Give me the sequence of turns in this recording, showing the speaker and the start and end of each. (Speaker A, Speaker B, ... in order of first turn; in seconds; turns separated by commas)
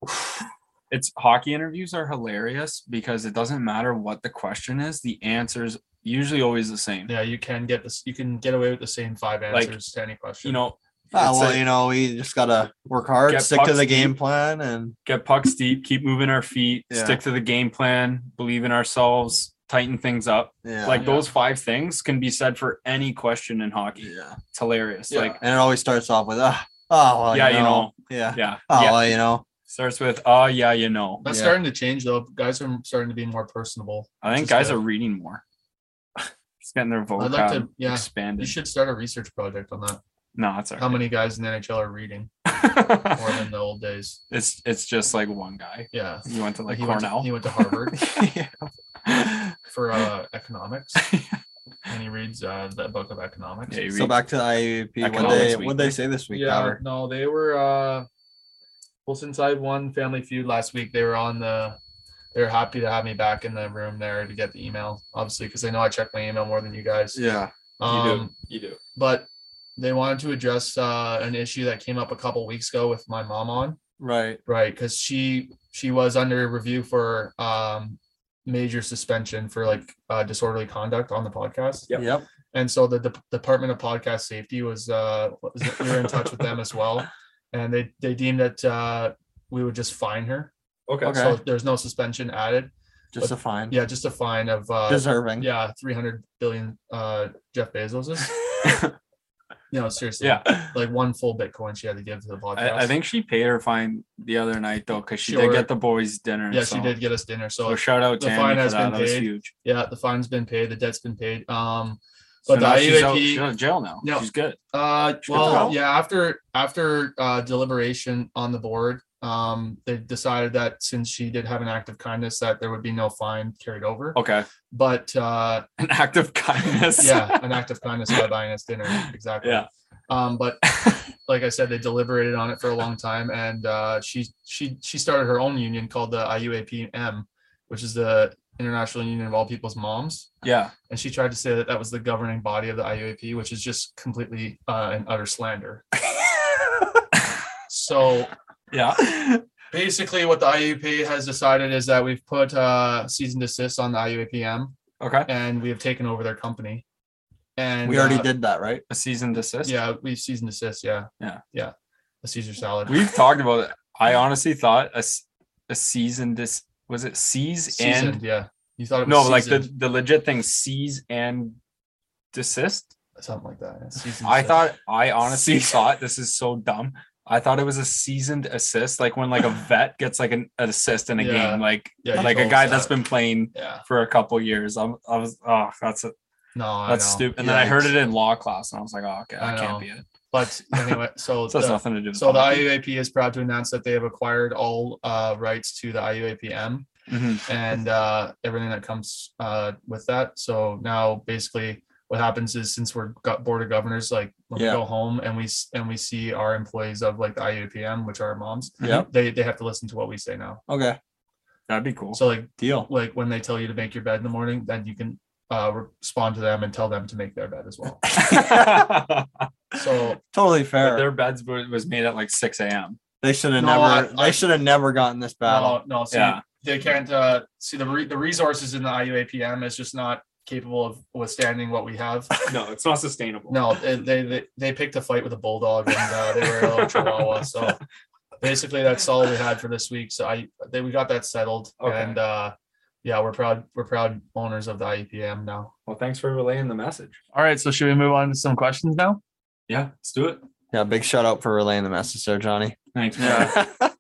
Speaker A: 0.9-7.1, Speaker B: 7.1-10.6, Speaker A: 9.5-9.8, Speaker A: 10.4-11.6, Speaker C: 11.1-14.9, Speaker A: 13.3-14.2, Speaker A: 15.1-25.4, Speaker C: 16.9-17.2, Speaker C: 20.6-21.1, Speaker B: 21.0-21.3, Speaker C: 24.0-24.4, Speaker C: 25.1-29.4, Speaker A: 27.3-29.1, Speaker A: 29.7-31.2, Speaker B: 31.2-34.8, Speaker C: 31.2-31.6, Speaker A: 34.2-35.4, Speaker A: 36.6-38.6, Speaker B: 37.2-40.0, Speaker A: 40.4-41.0, Speaker B: 40.8-42.3, Speaker A: 42.5-43.3, Speaker B: 43.1-44.2, Speaker A: 44.3-47.3, Speaker B: 45.9-48.0, Speaker C: 47.9-48.7, Speaker A: 49.1-49.4, Speaker B: 49.7-51.1, Speaker A: 51.0-51.4, Speaker B: 51.9-53.8, Speaker A: 53.7-54.2, Speaker C: 53.9-56.8, Speaker A: 55.0-56.0, Speaker B: 55.2-55.7, Speaker B: 56.3-58.1, Speaker B: 59.1-61.8, Speaker B: 62.3-67.2, Speaker C: 67.1-67.5, Speaker B: 67.8-68.3, Speaker A: 67.8-68.8, Speaker B: 69.0-73.8, Speaker C: 74.0-74.4, Speaker B: 74.5-81.9, Speaker C: 82.0-82.2, Speaker B: 82.5-90.5, Speaker A: 90.9-91.2, Speaker C: 91.0-91.4, Speaker B: 91.1-98.3, Speaker C: 93.1-93.8, Speaker C: 94.9-95.5, Speaker A: 98.6-98.9, Speaker B: 99.7-102.9, Speaker A: 100.2-100.7, Speaker A: 102.6-107.0, Speaker B: 105.2-105.7, Speaker B: 106.5-113.5, Speaker A: 107.7-109.5, Speaker A: 112.5-114.6, Speaker B: 114.0-125.7, Speaker A: 115.3-115.8, Speaker C: 115.3-115.8, Speaker A: 124.2-124.5, Speaker A: 125.8-127.6, Speaker B: 127.0-130.6, Speaker A: 128.9-129.7, Speaker A: 130.7-131.1, Speaker B: 131.3-140.3, Speaker A: 140.4-140.7, Speaker B: 140.9-145.8, Speaker B: 147.7-148.3, Speaker A: 148.7-149.4, Speaker B: 149.7-154.7, Speaker A: 155.0-155.3, Speaker B: 155.3-156.8, Speaker B: 157.6-158.3, Speaker C: 157.8-158.8, Speaker A: 158.9-159.8, Speaker B: 159.6-163.1, Speaker A: 162.9-168.2, Speaker B: 167.7-169.7, Speaker A: 169.1-171.6, Speaker A: 172.3-172.9, Speaker B: 173.2-174.7, Speaker A: 174.2-186.1, Speaker B: 181.2-183.0, Speaker B: 183.5-183.8, Speaker B: 186.6-187.3, Speaker A: 186.9-190.1, Speaker C: 187.4-187.9, Speaker B: 189.4-196.9, Speaker A: 190.7-192.7, Speaker A: 197.1-197.5, Speaker B: 197.5-210.6, Speaker C: 204.6-204.8, Speaker C: 208.8-209.1, Speaker C: 210.7-211.0, Speaker A: 211.7-212.2, Speaker B: 212.1-218.0, Speaker C: 212.6-212.9, Speaker C: 218.1-219.0, Speaker A: 218.2-219.4, Speaker B: 219.7-220.2, Speaker C: 220.3-221.1, Speaker A: 220.8-223.0, Speaker C: 223.2-225.8, Speaker B: 223.6-224.5, Speaker B: 225.4-232.3, Speaker A: 226.1-226.4, Speaker A: 232.5-233.7, Speaker B: 233.5-237.8, Speaker A: 236.5-237.5, Speaker B: 238.4-245.7, Speaker A: 241.8-242.2, Speaker A: 245.9-247.2, Speaker B: 247.3-249.2, Speaker A: 249.7-250.4, Speaker C: 250.7-253.9, Speaker A: 252.9-253.6, Speaker B: 253.2-253.6